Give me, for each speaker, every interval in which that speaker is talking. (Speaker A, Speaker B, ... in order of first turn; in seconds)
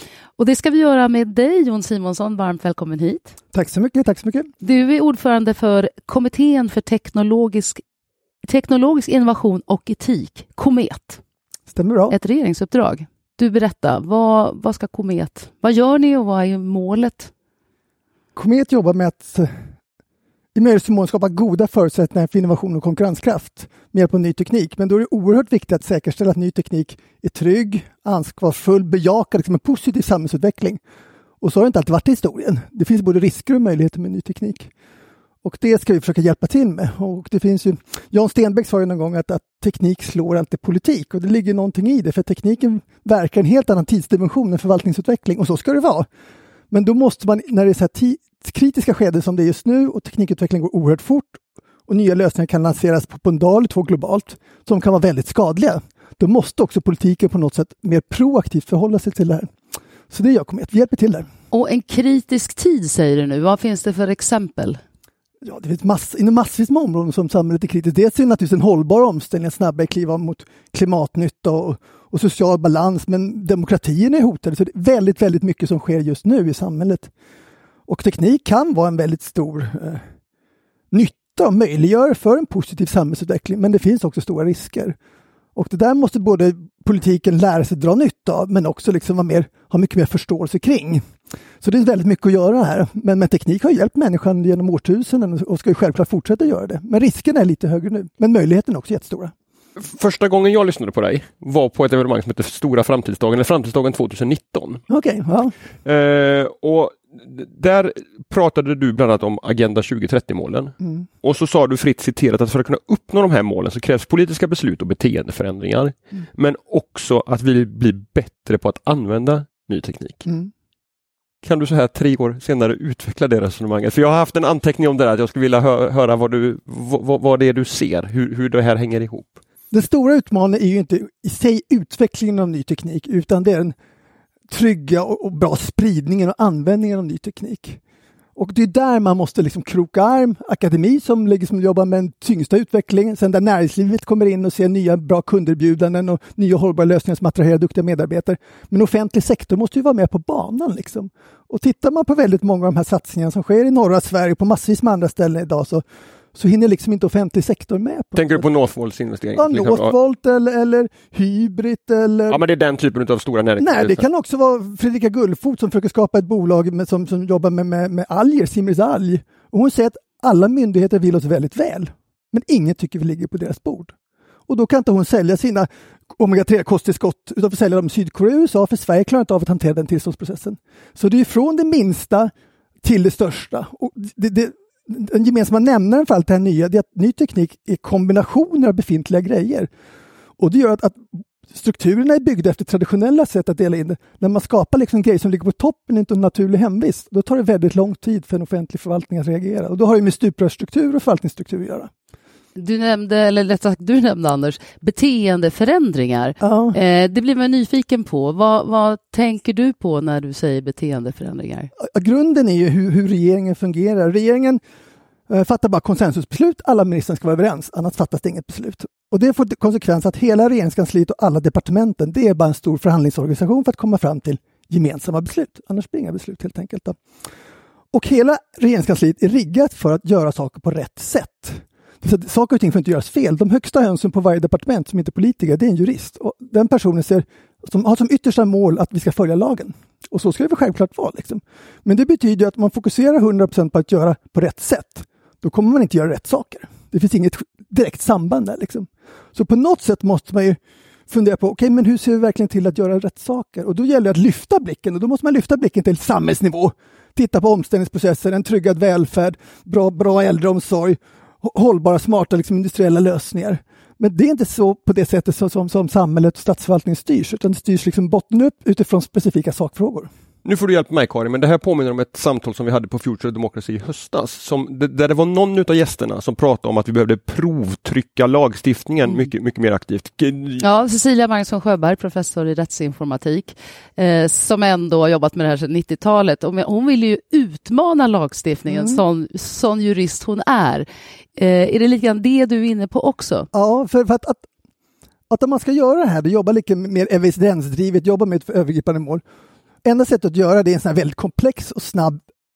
Speaker A: 0.4-3.3, 4.6-7.8, 8.4-11.2, 12.1-17.3, 61.5-64.8, 202.6-211.7, 280.6-290.9, 291.4-293.5
Speaker B: 3.5-4.5, 11.7-12.1, 18.3-19.6, 20.5-30.8, 31.4-34.7, 35.4-46.1, 46.7-59.5, 60.1-61.3, 65.4-77.1, 77.9-80.0, 80.9-85.0, 85.5-91.0, 91.6-99.3, 104.9-105.5, 129.7-133.7, 134.5-137.8, 138.3-158.4, 159.3-162.4, 163.6-173.9, 174.5-189.7, 190.4-201.9, 206.4-206.7, 211.8-214.6, 215.3-227.0, 227.9-270.1, 288.7-289.0, 293.5-294.4, 295.3-299.2, 299.8-302.2
Speaker C: 99.8-104.8, 105.8-120.3, 121.4-129.4, 158.2-159.9, 162.3-164.0, 270.4-280.6